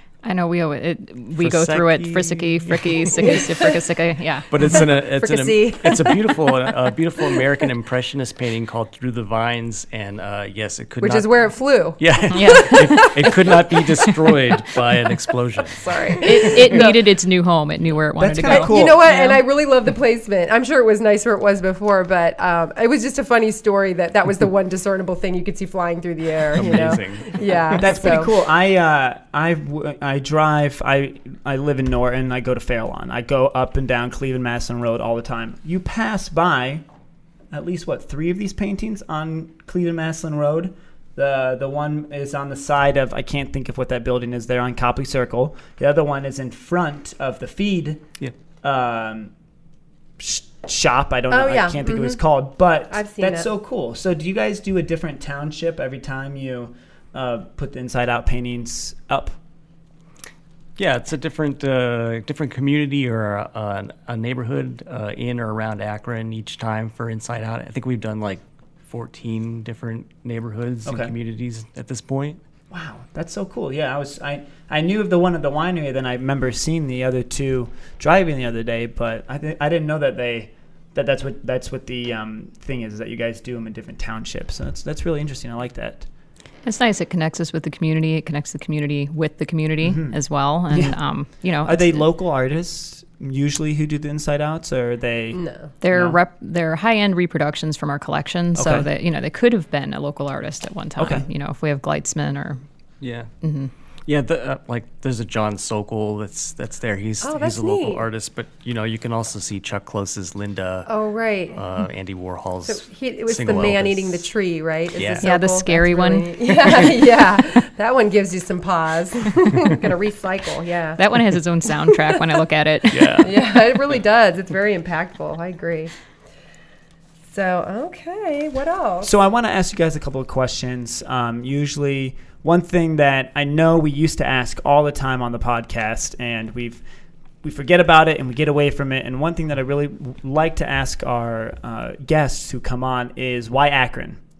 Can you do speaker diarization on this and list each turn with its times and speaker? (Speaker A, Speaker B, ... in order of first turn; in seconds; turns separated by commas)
Speaker A: 0.2-4.6, Speaker B: 1.4-3.4, Speaker B: 4.5-11.4, Speaker C: 5.0-6.5, Speaker C: 11.0-13.2, Speaker B: 12.0-16.7, Speaker A: 12.3-13.5, Speaker C: 15.8-17.0, Speaker A: 16.2-19.4, Speaker D: 18.2-19.0, Speaker C: 18.4-28.3, Speaker B: 26.5-27.8, Speaker D: 27.8-36.8, Speaker D: 37.5-48.0, Speaker D: 48.6-49.3, Speaker D: 50.2-59.4, Speaker C: 51.3-52.2, Speaker C: 52.9-53.5, Speaker B: 60.8-72.4, Speaker D: 70.8-71.1, Speaker D: 72.7-86.1, Speaker A: 86.6-92.0, Speaker D: 89.8-90.2, Speaker D: 90.7-91.0, Speaker D: 91.6-95.4, Speaker C: 95.3-95.7, Speaker A: 95.8-102.6, Speaker D: 95.9-96.2, Speaker D: 98.5-98.9, Speaker D: 101.0-101.2, Speaker B: 103.0-103.3, Speaker A: 103.4-103.7, Speaker B: 104.1-110.9, Speaker C: 107.2-108.0, Speaker C: 110.9-111.6, Speaker B: 111.5-114.2, Speaker C: 112.7-121.0, Speaker B: 114.9-115.3, Speaker A: 115.2-116.5, Speaker A: 121.0-123.3, Speaker B: 122.9-123.4, Speaker C: 123.1-125.9, Speaker C: 127.3-129.1, Speaker D: 129.0-136.8, Speaker D: 137.4-144.2